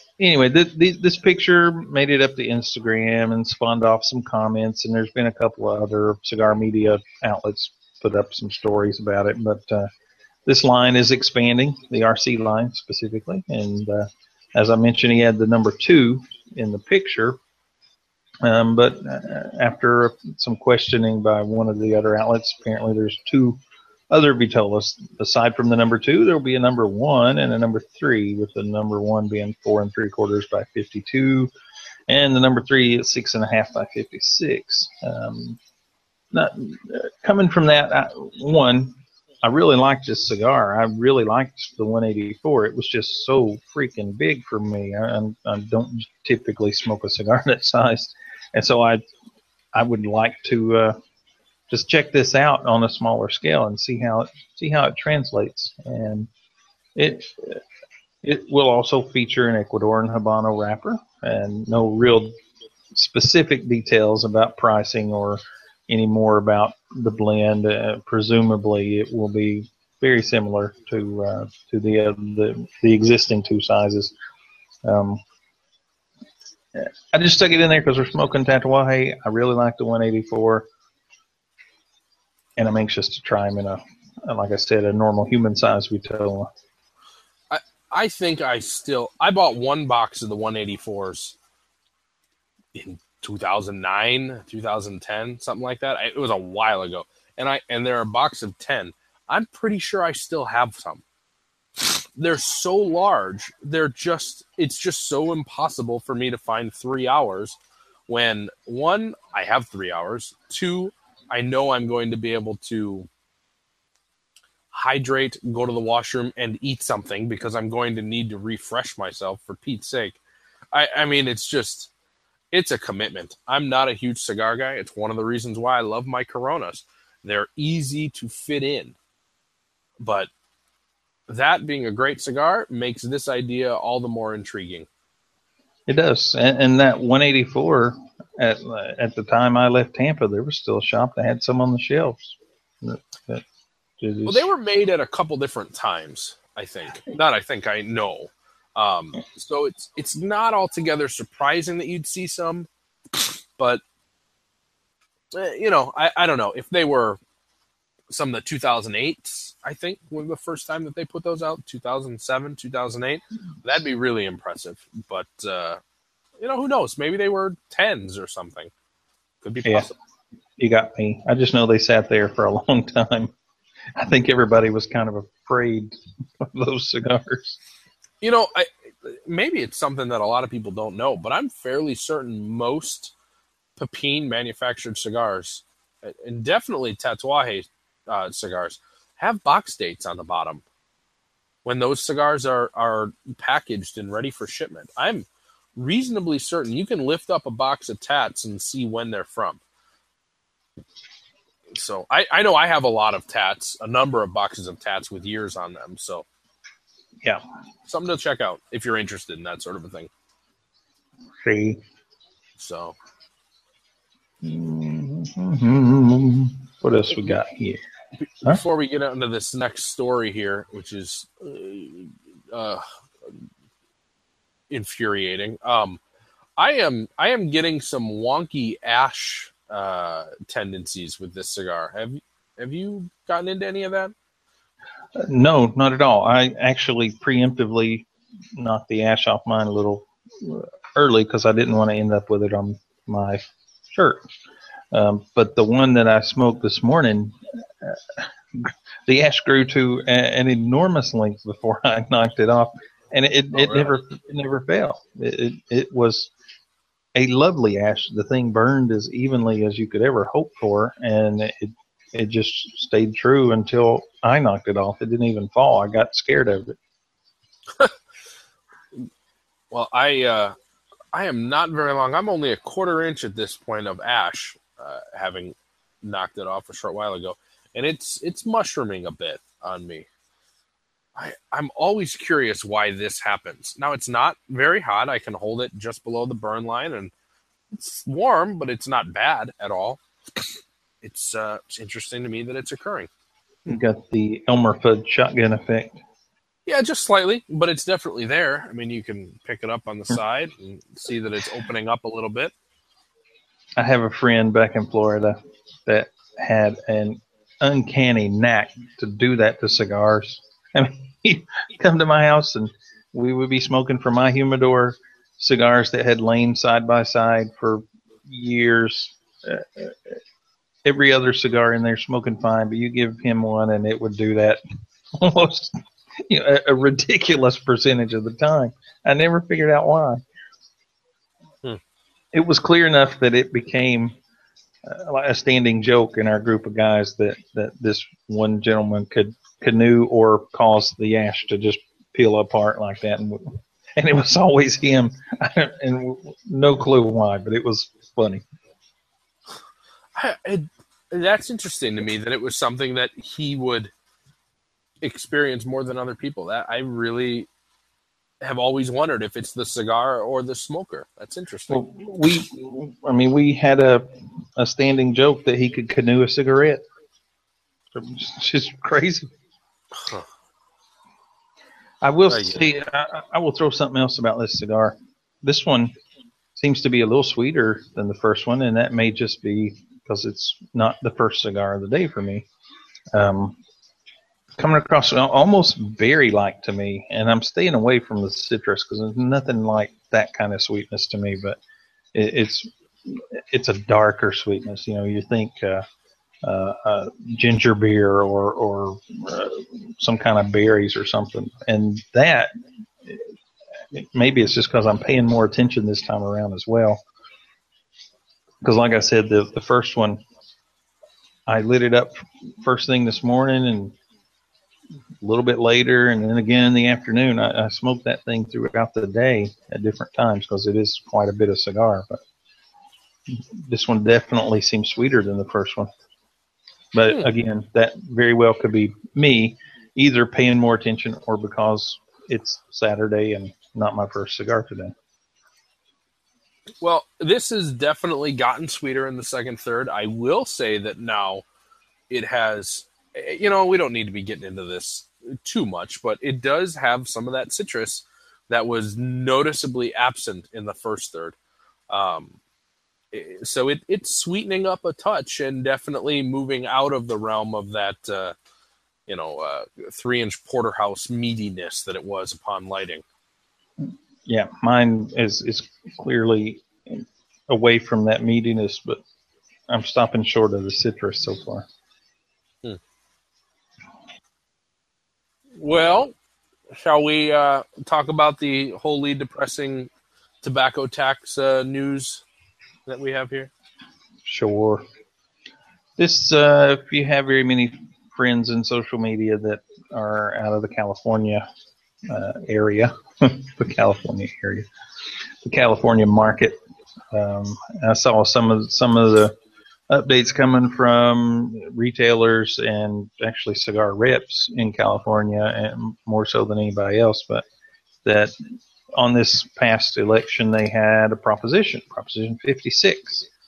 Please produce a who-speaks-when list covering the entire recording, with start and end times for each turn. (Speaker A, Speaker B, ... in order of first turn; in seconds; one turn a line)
Speaker A: 0.2-9.9
Speaker A: 10.4-17.4
Speaker A: 18.4-23.6
Speaker A: 24.1-31.5
Speaker A: 32.1-35.6
Speaker A: 36.3-49.0
Speaker A: 49.7-51.0
Speaker A: 51.7-56.3
Speaker A: 57.0-57.6
Speaker A: 58.2-62.3
Speaker A: 62.9-74.1
Speaker A: 74.8-75.2
Speaker A: 76.7-80.7
Speaker A: 82.6-86.5
Speaker B: 87.5-91.4
Speaker B: 92.7-101.0
Speaker B: 101.8-107.6
Speaker B: 108.1-113.1
Speaker B: 114.7-120.2
Speaker B: 120.7-121.9
Speaker B: 122.5-129.0
Speaker B: 130.0-130.3
Speaker B: 131.3-134.9
Speaker A: 135.9-143.4
Speaker A: 144.0-144.4
Speaker B: 144.3-153.8
Speaker B: 155.3-157.2
Speaker B: 158.1-165.8
Speaker B: 166.4-168.7
Speaker B: 169.4-170.0
Speaker A: 170.6-173.3
Speaker A: 173.9-177.6
Speaker B: 178.2-183.1
Speaker B: 183.8-190.6
Speaker B: 191.6-199.6
Speaker B: 201.7-206.3
Speaker B: 207.9-210.1
Speaker A: 211.4-211.8
Speaker B: 212.6-212.9
Speaker A: 214.4-217.8
Speaker B: 218.2-222.8
Speaker B: 224.7-226.0
Speaker B: 226.6-234.1
Speaker A: 235.2-244.2
Speaker A: 244.9-256.3
Speaker B: 253.5-253.9
Speaker A: 257.1-266.8
Speaker B: 269.7-270.5
Speaker B: 271.1-280.1
Speaker B: 281.2-287.1
Speaker B: 287.7-290.0
Speaker B: 291.0-293.1
Speaker A: 293.7-296.0
Speaker B: 296.7-302.5
Speaker A: 303.8-320.2
Speaker A: 320.8-324.6
Speaker A: 325.1-330.2
Speaker A: 332.3-334.2
Speaker A: 334.8-348.4
Speaker B: 350.1-353.9
Speaker B: 355.0-357.5
Speaker B: 358.4-361.8
Speaker A: 361.7-366.8
Speaker A: 367.9-369.3
Speaker B: 369.9-370.3
Speaker A: 372.0-375.9
Speaker B: 372.3-372.7
Speaker A: 376.6-382.5
Speaker A: 383.1-383.6
Speaker A: 384.6-391.6
Speaker A: 392.1-395.8
Speaker A: 396.4-402.5
Speaker A: 403.9-407.0
Speaker A: 408.6-410.2
Speaker A: 411.5-413.9
Speaker A: 415.2-422.2
Speaker A: 423.3-425.9
Speaker A: 426.9-434.9
Speaker B: 436.8-441.4
Speaker B: 442.1-451.4
Speaker B: 451.9-452.4
Speaker B: 453.1-458.3
Speaker B: 459.1-463.0
Speaker A: 463.8-469.0
Speaker A: 469.7-471.7
Speaker B: 475.6-476.1
Speaker B: 476.7-479.9
Speaker B: 480.4-482.2
Speaker B: 482.9-483.5
Speaker A: 484.2-484.8
Speaker A: 486.0-491.4
Speaker A: 492.1-494.7
Speaker A: 495.4-496.6
Speaker A: 497.1-499.3
Speaker A: 499.9-507.4
Speaker A: 508.1-508.3
Speaker A: 508.9-513.3